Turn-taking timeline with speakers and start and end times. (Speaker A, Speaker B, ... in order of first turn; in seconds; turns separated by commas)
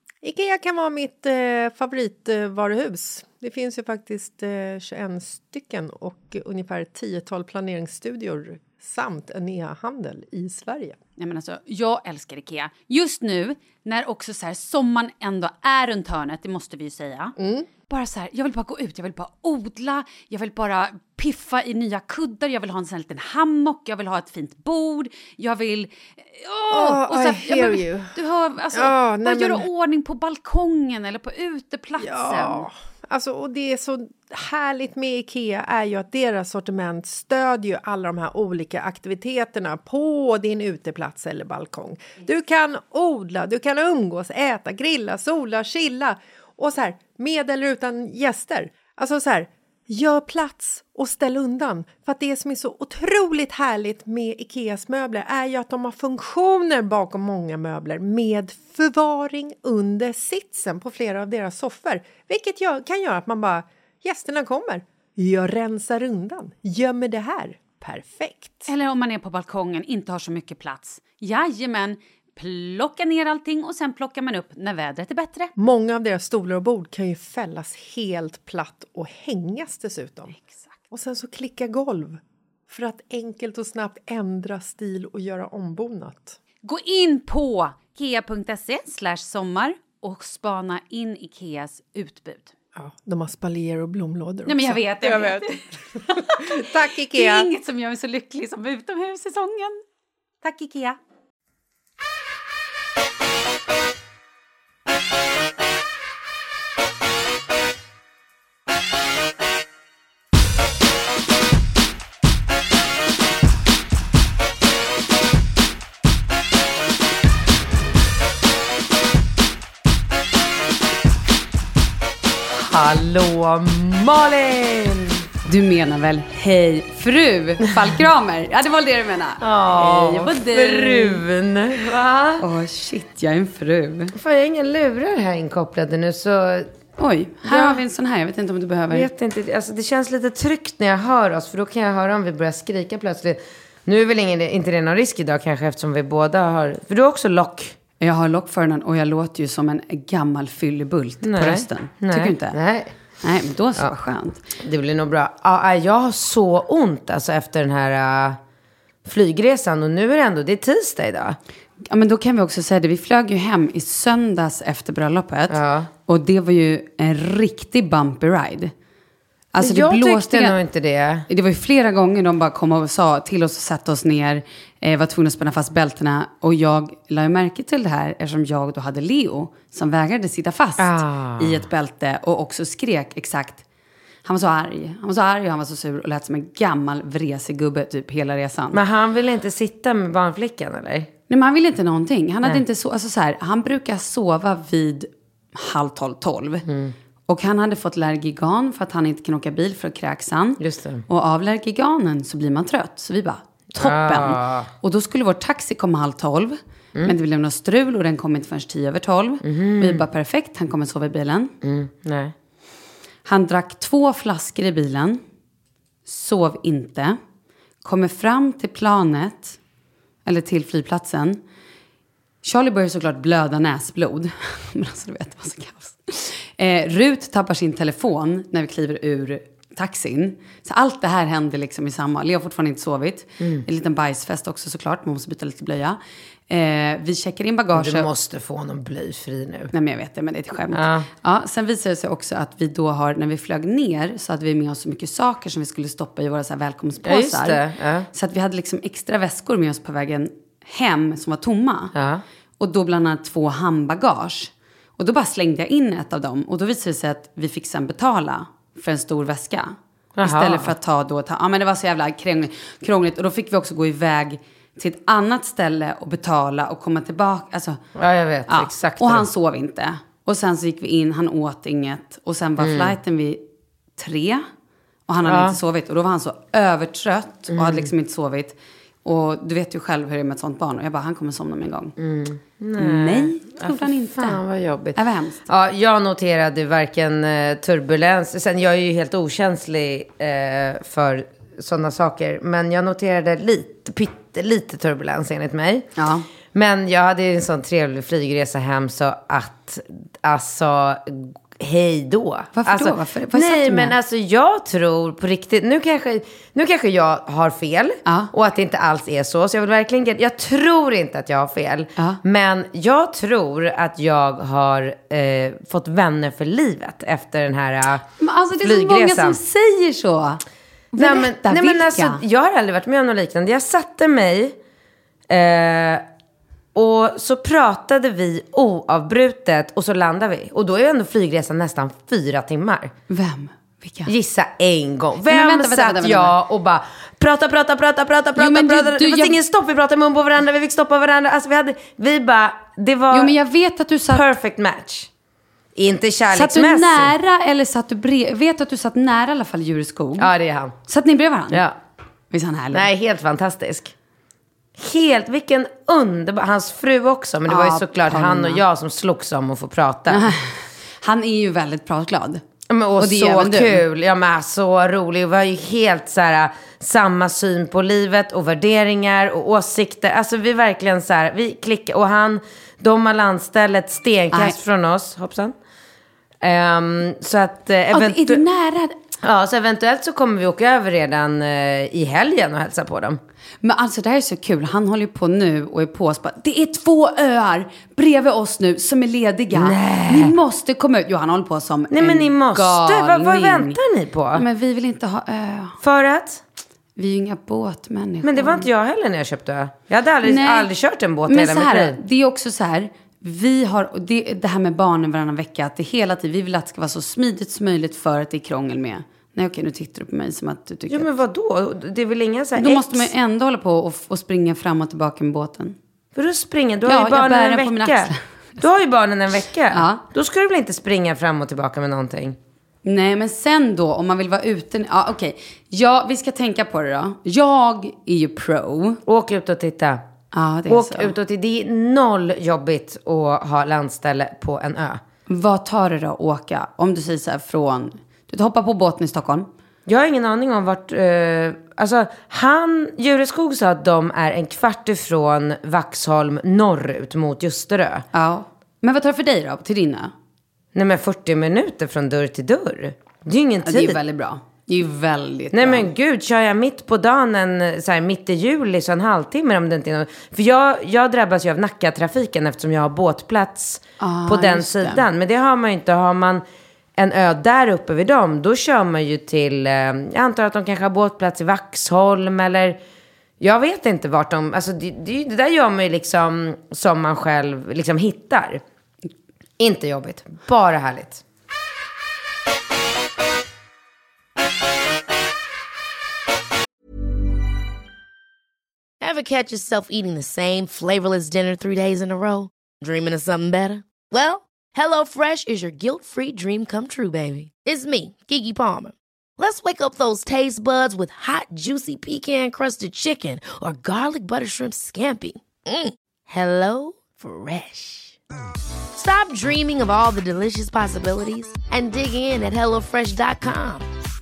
Speaker A: 0.2-11.0, Speaker B: 11.2-17.3, Speaker A: 17.4-17.7, Speaker B: 17.9-32.6, Speaker A: 26.7-28.1, Speaker A: 28.7-29.6, Speaker A: 32.0-68.7, Speaker B: 68.7-75.5, Speaker A: 75.6-80.3, Speaker A: 80.9-86.4, Speaker B: 86.6-92.5, Speaker A: 92.8-95.5, Speaker B: 94.5-99.8, Speaker A: 96.2-97.5, Speaker B: 100.4-101.0, Speaker C: 122.5-125.2, Speaker B: 125.5-131.2, Speaker C: 129.4-132.4, Speaker B: 132.4-134.1, Speaker C: 134.1-136.7, Speaker B: 137.0-139.1, Speaker C: 137.4-137.8, Speaker C: 138.9-147.7, Speaker B: 148.0-152.6, Speaker C: 151.2-152.9, Speaker B: 153.2-154.4, Speaker C: 154.6-158.4, Speaker C: 159.0-161.4, Speaker B: 161.9-168.7, Speaker C: 165.5-165.9, Speaker B: 169.5-170.6, Speaker C: 169.6-171.3, Speaker B: 171.3-183.6, Speaker C: 180.8-181.7, Speaker B: 184.2-188.8, Speaker C: 188.7-191.1, Speaker B: 191.3-196.7, Speaker C: 196.7-196.9, Speaker B: 197.3-211.5, Speaker C: 200.6-201.0, Speaker C: 203.8-204.7, Speaker C: 209.4-210.0, Speaker C: 211.6-212.3, Speaker B: 213.2-215.2, Speaker B: 216.1-217.2, Speaker B: 217.8-219.6, Speaker B: 220.2-221.4, Speaker B: 222.4-238.1, Speaker C: 233.4-233.6, Speaker C: 237.7-239.7, Speaker B: 239.7-247.6, Speaker C: 240.7-241.1, Speaker C: 247.0-248.1, Speaker B: 248.1-251.9, Speaker C: 251.9-252.2, Speaker B: 252.6-267.8, Speaker C: 260.1-260.7, Speaker C: 267.9-269.3, Speaker B: 268.5-273.4, Speaker C: 272.6-272.9, Speaker B: 274.0-274.4, Speaker B: 275.1-281.9, Speaker C: 275.2-275.6, Speaker C: 277.5-277.9, Speaker C: 282.0-295.9, Speaker B: 282.8-284.4, Speaker B: 284.9-285.4, Speaker B: 296.0-296.2, Speaker C: 296.5-319.4, Speaker B: 302.5-303.9, Speaker B: 308.1-308.3, Speaker B: 318.2-320.4, Speaker B: 320.9-322.2, Speaker C: 320.9-324.6, Speaker C: 325.3-326.1, Speaker C: 326.7-332.9, Speaker B: 333.1-334.1, Speaker C: 334.1-343.3, Speaker B: 335.3-336.3, Speaker B: 338.4-339.4, Speaker B: 343.1-344.3, Speaker C: 344.1-345.1, Speaker C: 345.7-347.1, Speaker B: 346.3-350.3, Speaker C: 350.2-350.7, Speaker B: 350.9-351.6, Speaker C: 351.5-351.8, Speaker B: 352.3-352.9, Speaker C: 352.7-353.9, Speaker C: 354.8-360.3, Speaker B: 357.5-358.6, Speaker B: 360.1-362.4, Speaker C: 362.7-375.5, Speaker B: 363.0-363.8, Speaker B: 374.3-374.6, Speaker C: 376.4-378.4, Speaker B: 377.9-378.9, Speaker C: 379.2-383.2, Speaker B: 383.6-393.8, Speaker C: 389.5-390.3, Speaker C: 391.9-394.4, Speaker B: 394.3-395.8, Speaker C: 395.8-396.4, Speaker B: 396.9-398.6, Speaker C: 398.2-402.0, Speaker B: 400.2-400.7, Speaker B: 401.3-411.1, Speaker C: 410.9-413.1, Speaker B: 412.6-415.8, Speaker C: 416.1-422.4, Speaker B: 416.9-418.2, Speaker B: 419.7-420.0, Speaker B: 422.8-429.0, Speaker C: 429.1-430.0, Speaker B: 430.3-431.1, Speaker C: 430.7-435.0, Speaker B: 435.3-439.5, Speaker C: 439.9-448.1, Speaker B: 448.1-450.1, Speaker C: 450.7-454.0, Speaker B: 453.6-455.9, Speaker C: 455.5-466.4, Speaker B: 464.0-465.1, Speaker C: 466.9-472.8, Speaker C: 473.4-478.6, Speaker C: 479.6-481.2, Speaker D: 489.0-508.2, Speaker D: 508.9-513.9